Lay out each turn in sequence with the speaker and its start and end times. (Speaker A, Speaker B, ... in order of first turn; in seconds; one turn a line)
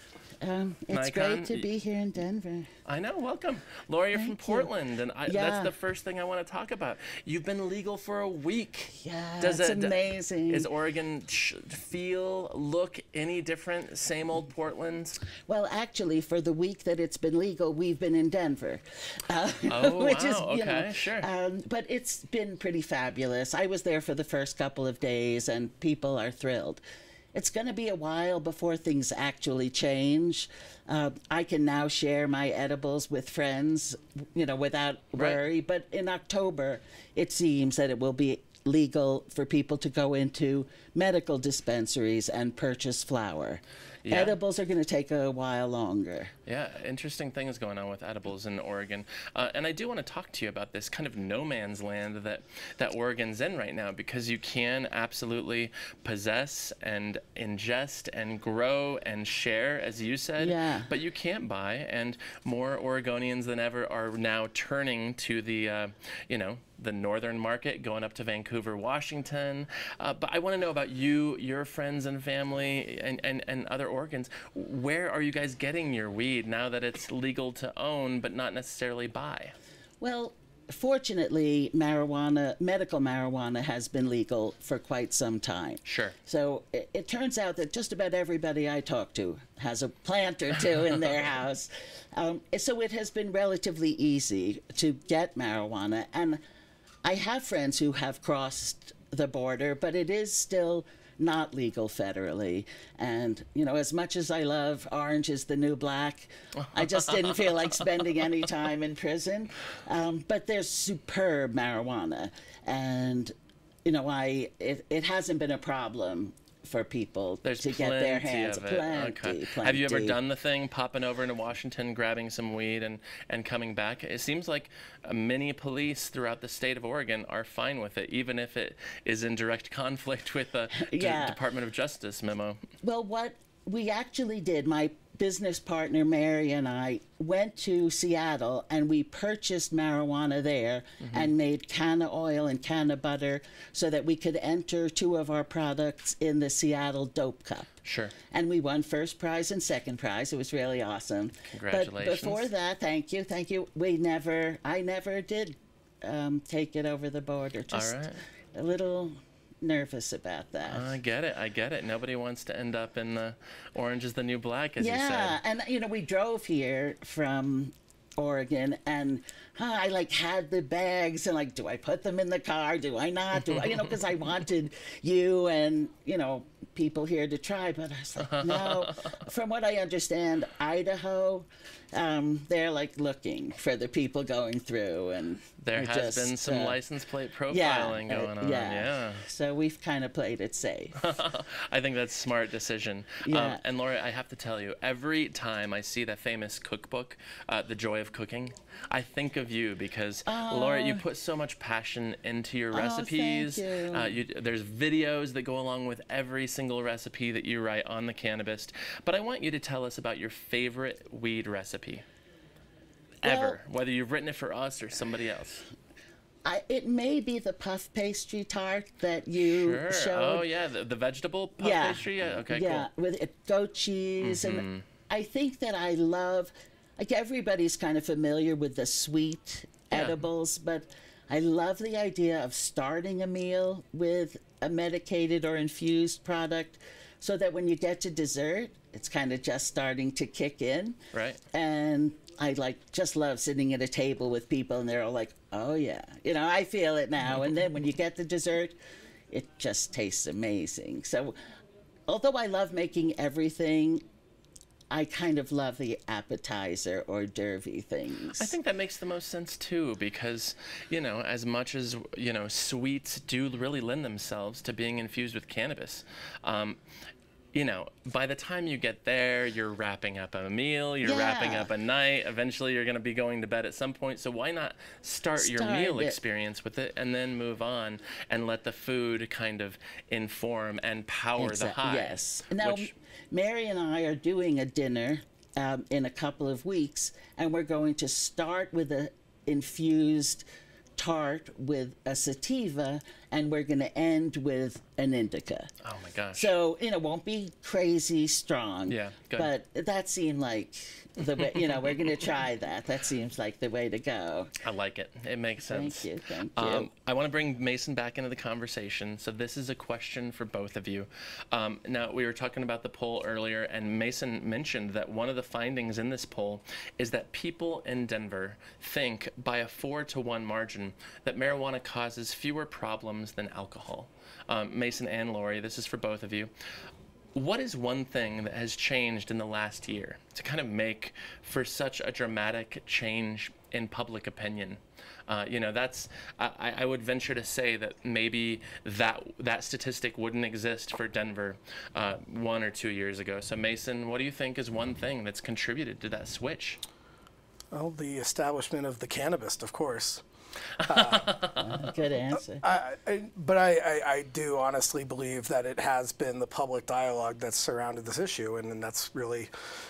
Speaker A: 0.4-2.7
Speaker B: 0.9-1.7
Speaker B: 2.9-15.2
Speaker A: 4.1-4.7
Speaker A: 5.2-5.7
Speaker A: 9.0-10.7
Speaker A: 15.5-26.8
Speaker B: 19.7-21.3
Speaker A: 27.3-46.3
Speaker B: 44.0-44.4
Speaker B: 46.5-79.5
Speaker A: 60.4-60.9
Speaker A: 80.0-96.4
Speaker B: 85.8-86.2
Speaker A: 97.0-113.3
Speaker B: 106.6-107.5
Speaker A: 113.8-120.2
Speaker B: 117.4-132.6
Speaker A: 130.7-131.4
Speaker A: 132.8-147.7
Speaker B: 141.0-141.3
Speaker B: 147.8-148.1
Speaker A: 148.3-158.0
Speaker B: 151.5-152.5
Speaker B: 157.7-158.2
Speaker A: 158.5-161.0
Speaker B: 160.7-165.4
Speaker A: 164.8-186.8
Speaker B: 173.3-173.9
Speaker B: 178.2-179.1
Speaker B: 185.6-189.2
Speaker A: 187.5-191.1
Speaker B: 191.0-212.1
Speaker A: 193.2-193.6
Speaker A: 200.3-201.0
Speaker A: 202.7-204.2
Speaker A: 213.2-213.6
Speaker B: 213.2-215.6
Speaker A: 216.4-220.5
Speaker B: 219.4-222.9
Speaker A: 221.6-241.0
Speaker B: 224.2-224.8
Speaker B: 229.9-230.2
Speaker B: 241.1-241.4
Speaker A: 241.5-248.8
Speaker A: 249.3-251.3
Speaker A: 252.1-254.0
Speaker A: 254.9-258.5
Speaker B: 258.4-266.8
Speaker B: 267.5-282.9
Speaker A: 271.0-271.7
Speaker A: 275.4-276.2
Speaker A: 281.4-290.4
Speaker A: 291.0-295.7
Speaker B: 295.8-296.5
Speaker A: 296.3-304.5
Speaker B: 298.9-299.5
Speaker B: 301.5-301.9
Speaker B: 304.6-326.5
Speaker A: 305.6-306.9
Speaker B: 327.3-346.8
Speaker C: 347.7-350.2
Speaker B: 350.8-351.9
Speaker C: 350.8-351.3
Speaker A: 351.6-352.6
Speaker C: 352.5-359.5